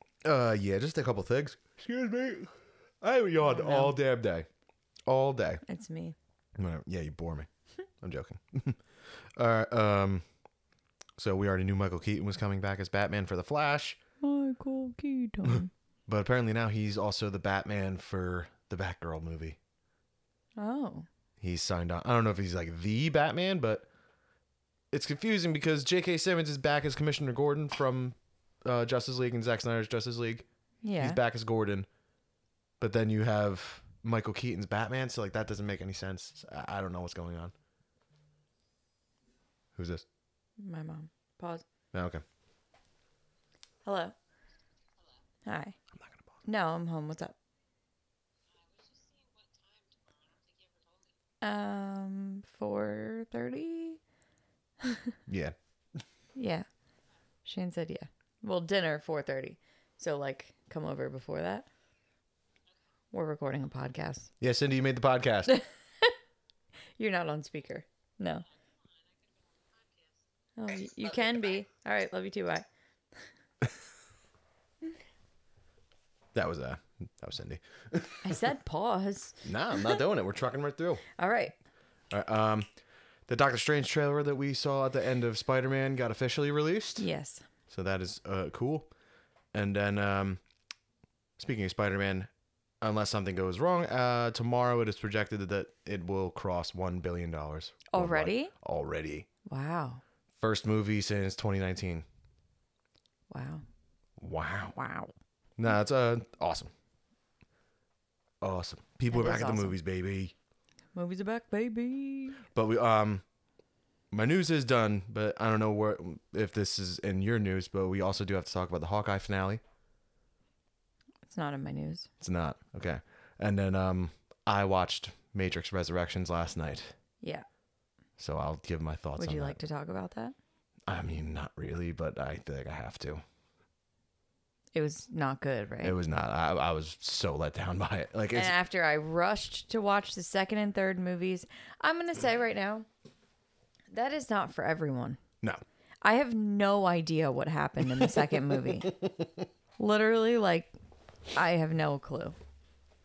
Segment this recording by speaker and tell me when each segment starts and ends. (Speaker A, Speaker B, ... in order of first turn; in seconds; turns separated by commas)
Speaker A: 0.2-4.5, Speaker B: 3.4-4.0, Speaker A: 5.1-5.6, Speaker B: 5.7-6.2, Speaker A: 6.6-7.5, Speaker A: 8.0-8.8, Speaker A: 9.4-10.2, Speaker A: 11.2-14.0, Speaker B: 14.2-15.7, Speaker A: 15.5-19.6, Speaker B: 20.6-21.1, Speaker A: 21.4-23.9, Speaker A: 24.9-30.4, Speaker B: 30.8-31.2, Speaker A: 31.0-31.9, Speaker A: 32.8-37.5, Speaker A: 39.8-40.0, Speaker B: 40.6-41.6, Speaker A: 41.9-42.2, Speaker B: 43.9-44.1, Speaker B: 45.5-45.8, Speaker B: 46.5-47.4, Speaker B: 51.4-54.0, Speaker B: 54.8-55.2, Speaker A: 55.3-55.5, Speaker B: 56.4-56.7, Speaker B: 57.5-61.7, Speaker B: 63.1-64.3, Speaker A: 64.4-65.6, Speaker B: 65.5-66.1, Speaker B: 67.0-68.5, Speaker B: 70.6-72.7, Speaker A: 76.3-78.4, Speaker B: 78.2-80.0, Speaker A: 79.4-81.0, Speaker B: 81.2-81.6, Speaker A: 82.1-82.7, Speaker A: 83.3-87.1, Speaker B: 87.0-87.4, Speaker A: 87.7-88.9, Speaker A: 89.5-90.4, Speaker A: 91.4-92.3, Speaker A: 92.8-99.3, Speaker B: 97.9-98.5, Speaker B: 99.5-100.0, Speaker A: 100.4-102.0, Speaker B: 103.3-103.6, Speaker A: 104.2-104.8, Speaker B: 104.8-105.1, Speaker A: 105.6-106.7, Speaker A: 108.4-110.3, Speaker B: 109.1-109.8, Speaker B: 111.0-112.5, Speaker A: 112.5-113.2, Speaker A: 114.1-119.6, Speaker B: 121.3-122.1, Speaker A: 122.2-126.9, Speaker A: 128.2-129.6, Speaker B: 129.2-130.3, Speaker A: 130.9-133.2, Speaker B: 134.8-136.0, Speaker A: 135.8-138.6, Speaker B: 138.3-142.9, Speaker B: 143.9-145.2, Speaker B: 146.0-149.0, Speaker A: 147.9-149.3, Speaker B: 149.8-150.7, Speaker B: 151.3-152.4